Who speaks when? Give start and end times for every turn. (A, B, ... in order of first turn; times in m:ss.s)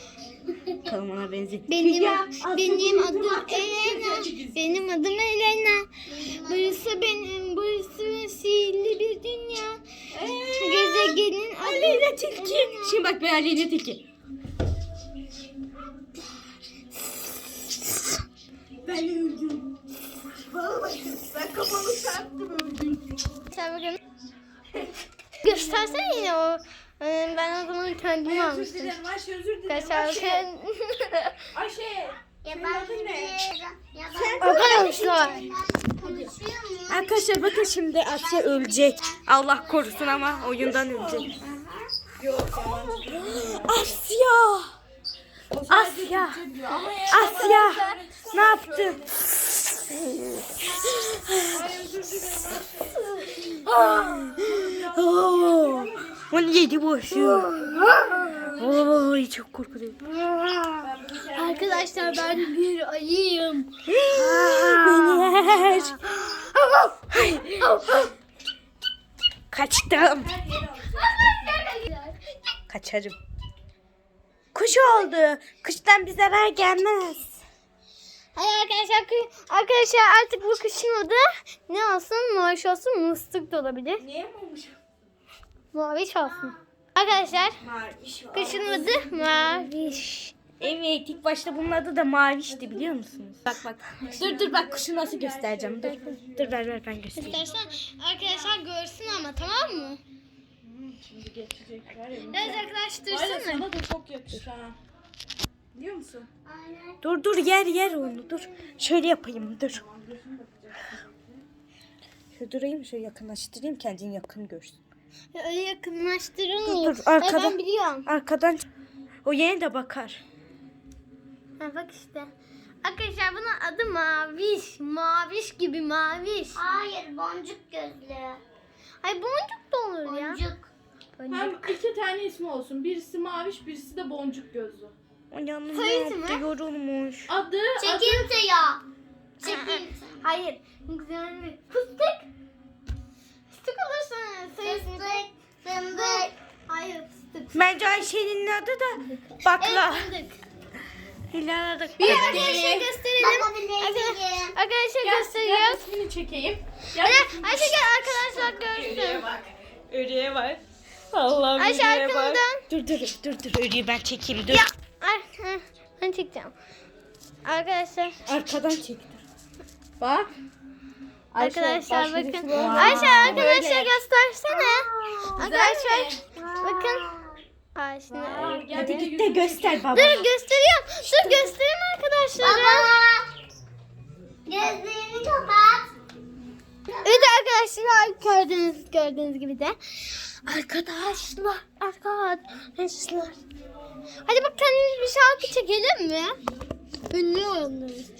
0:00.8-0:04.7 A
0:01.7-0:09.8 B
0:03.9-0:04.3 C
0:06.1-0:06.8 D
0:10.1-0:14.0 A
0:10.6-0:13.0 B
0:18.8-0:23.0 A
0:23.5-0:24.0 B
0:25.4-0:29.0 B
0:28.2-0:30.4 C
0:29.7-0:31.4 B
0:31.5-0:32.8 C
0:32.4-0:41.9 D
0:32.5-0:33.4 A
0:34.1-0:35.5 A
0:34.4-0:35.4 B
0:36.0-0:36.3 C
0:36.9-0:41.3 A
0:40.6-0:41.2 C
0:42.2-0:44.0 C
0:42.6-0:44.7 A
0:45.5-0:49.2 C
0:45.7-0:49.1 A
0:49.9-0:51.7 A
0:51.4-0:56.4 C
0:53.6-0:57.8 A
0:57.3-0:58.2 B
0:57.8-0:58.8 C
0:58.6-1:00.6 A
1:00.8-1:02.4 C
1:01.3-1:07.8 B
1:03.9-1:06.5 A
1:07.1-1:08.1 A
1:09.5-1:10.3 A
1:10.2-1:11.6 C
1:10.9-1:12.2 B
1:12.7-1:13.2 A
1:14.5-1:17.4 A
1:18.3-1:24.0 B
1:24.0-1:24.8 A
1:25.7-1:27.6 B
1:27.6-1:30.0 A
1:28.3-1:30.3 B
1:30.6-1:37.6 A
1:32.5-1:32.8 C
1:34.0-1:36.7 C
1:37.2-1:40.0 B
1:40.6-1:44.8 C
1:42.3-1:43.7 B
1:45.7-1:46.3 C
1:46.4-1:47.0 D
1:47.0-1:49.8 A
1:49.5-1:51.2 C
1:52.3-1:54.8 A
1:55.3-1:58.1 B
1:56.6-1:58.6 A
1:59.2-2:00.2 A
2:01.6-2:02.3 B
2:02.8-2:06.6 B
2:06.6-2:08.4 D
2:09.0-2:10.4 B
2:10.0-2:10.7 D
2:11.2-2:11.8 B
2:11.3-2:14.9 C
2:15.3-2:17.3 A
2:15.7-2:16.4 B
2:17.3-2:18.2 C
2:17.8-2:18.8 D
2:19.4-2:22.3 B
2:19.4-2:20.2 D
2:23.5-2:25.2 B
2:24.6-2:26.3 D
2:25.9-2:27.6 B
2:27.5-2:30.1 A
2:29.6-2:30.4 B
2:31.3-2:32.6 A
2:32.0-2:35.8 B
2:32.0-2:32.9 C
2:32.2-2:32.6 D
2:33.2-2:34.6 D
2:35.0-2:39.2 C
2:37.0-2:39.2 B
2:38.3-2:44.6 A
2:41.6-2:42.6 B
2:44.5-2:46.5 B
2:47.4-2:48.2 B
2:48.2-2:49.2 A
2:50.0-2:50.3 C
2:51.3-2:53.9 C
2:51.4-2:57.0 B
2:52.5-2:53.5 A
2:54.5-2:55.4 D
2:55.4-2:56.2 C
2:56.3-2:57.4 D
2:57.7-2:58.7 B
2:58.1-3:00.3 A
2:58.2-2:59.9 C
2:59.9-3:02.9 B
3:02.4-3:03.3 D
3:04.4-3:05.9 D
3:06.9-3:07.2 D
3:07.0-3:13.4 B
3:14.2-3:16.4 B
3:17.1-3:18.1 B